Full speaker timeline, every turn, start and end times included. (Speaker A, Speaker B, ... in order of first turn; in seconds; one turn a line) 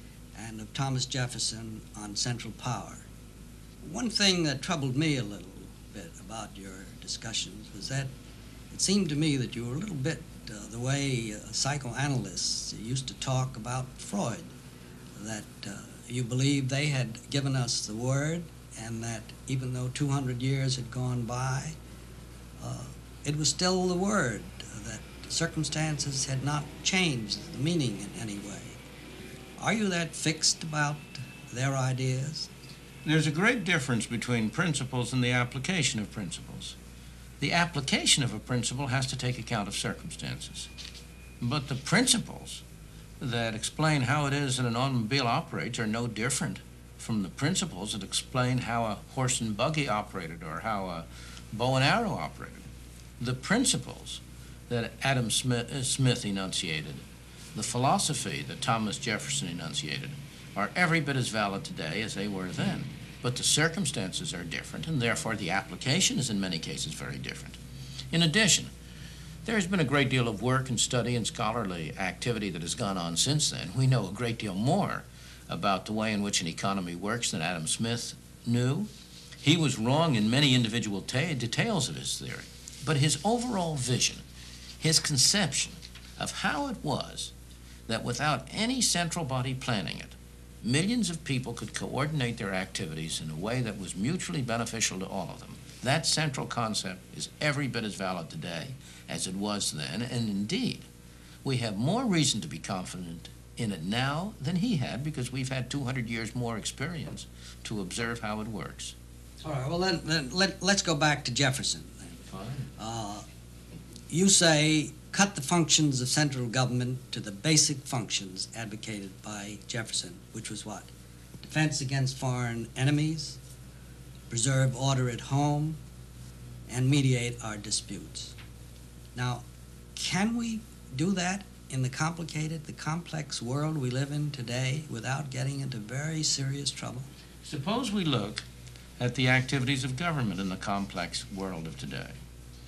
Speaker A: 0.3-3.0
Speaker A: 3.8-8.1
Speaker A: 8.7-14.5
Speaker A: 15.2-21.8
Speaker A: 22.6-28.8
Speaker A: 29.6-32.5
Speaker B: 33.0-36.8
Speaker B: 37.4-40.7
Speaker B: 41.4-42.6
Speaker B: 43.2-52.7
Speaker B: 53.2-57.0
Speaker B: 57.5-67.6
Speaker B: 68.1-68.7
Speaker B: 69.4-78.9
Speaker B: 79.4-84.2
Speaker B: 84.8-87.3
Speaker B: 87.9-100.8
Speaker B: 101.4-108.9
Speaker A: 109.4-112.1
Speaker B: 112.3-112.7
Speaker A: 112.8-113.2
Speaker A: 114.1-120.9
Speaker A: 121.4-123.4
Speaker A: 124.3-125.8
Speaker A: 126.7-128.3
Speaker A: 129.1-129.4
Speaker A: 129.9-137.1
Speaker B: 137.4-138.4
Speaker B: 139.0-142.2